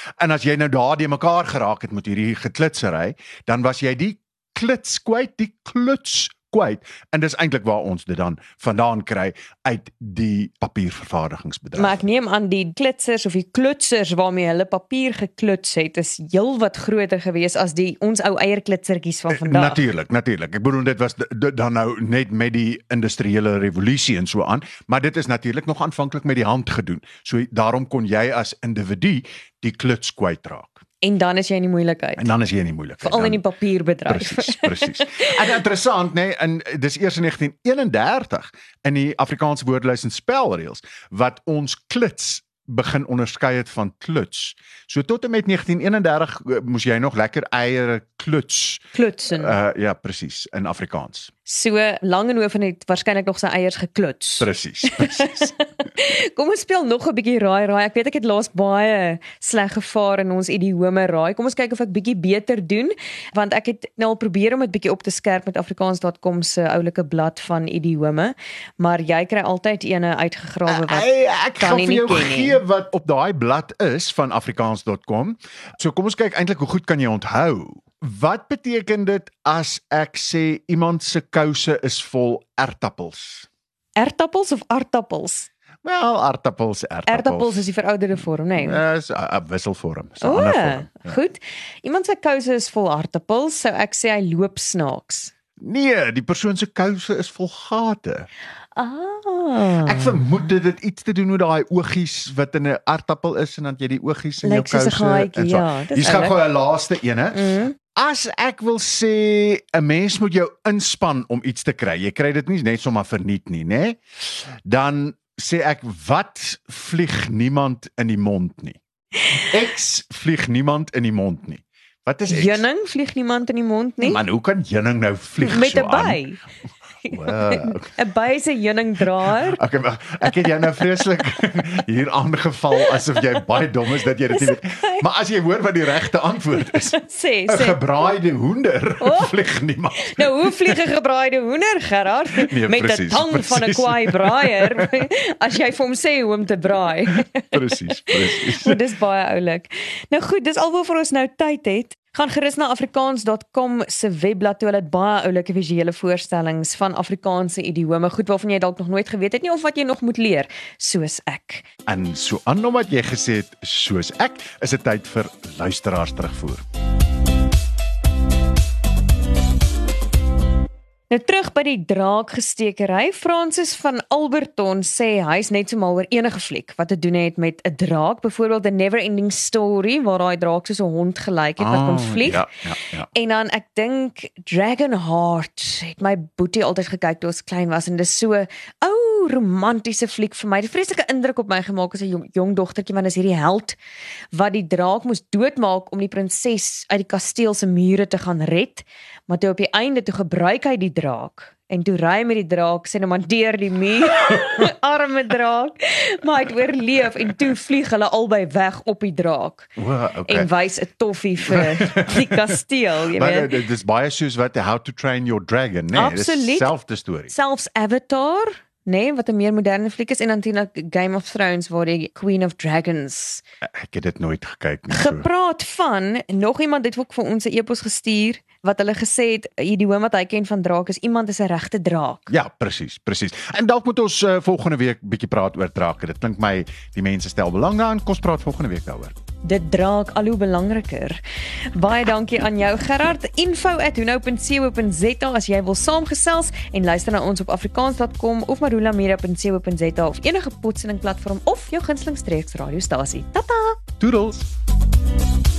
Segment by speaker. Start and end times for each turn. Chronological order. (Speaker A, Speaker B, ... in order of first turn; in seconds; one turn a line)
Speaker A: 0.2-12.0
Speaker B: 11.8-19.8
Speaker A: 19.3-30.8
Speaker B: 31.0-32.3
Speaker A: 32.2-33.4
Speaker B: 33.0-35.3
Speaker A: 34.1-51.3
Speaker B: 48.9-49.5
Speaker B: 51.5-72.6
Speaker A: 54.4-55.5
Speaker A: 70.7-83.5
Speaker B: 84.0-85.5
Speaker A: 85.8-87.6
Speaker B: 87.1-88.8
Speaker A: 88.6-91.2
Speaker B: 90.2-95.3
Speaker A: 95.6-98.3
Speaker B: 98.8-100.2
Speaker A: 99.8-107.4
Speaker B: 104.4-106.4
Speaker B: 107.3-107.8
Speaker A: 108.0-114.0
Speaker A: 114.7-118.8
Speaker A: 119.4-122.6
Speaker B: 122.3-124.2
Speaker A: 124.0-126.2
Speaker B: 125.4-126.4
Speaker B: 127.0-129.6
Speaker A: 127.1-127.9
Speaker A: 129.3-137.0
Speaker B: 132.8-133.2
Speaker B: 134.3-135.0
Speaker B: 136.7-137.8
Speaker A: 137.5-140.8
Speaker B: 139.0-139.3
Speaker B: 140.0-161.7
Speaker A: 142.3-144.9
Speaker A: 147.5-148.8
Speaker A: 161.9-166.6
Speaker B: 171.1-182.5
Speaker A: 181.6-183.1
Speaker B: 183.1-193.8
Speaker B: 194.3-209.7
Speaker A: 209.8-210.5
Speaker B: 210.3-213.5
Speaker A: 211.5-212.5
Speaker A: 213.1-217.3
Speaker B: 215.9-216.7
Speaker B: 217.3-223.4
Speaker A: 223.7-225.3
Speaker B: 224.9-232.3
Speaker A: 232.3-239.2
Speaker B: 239.4-241.2
Speaker B: 241.7-253.8
Speaker A: 254.0-254.5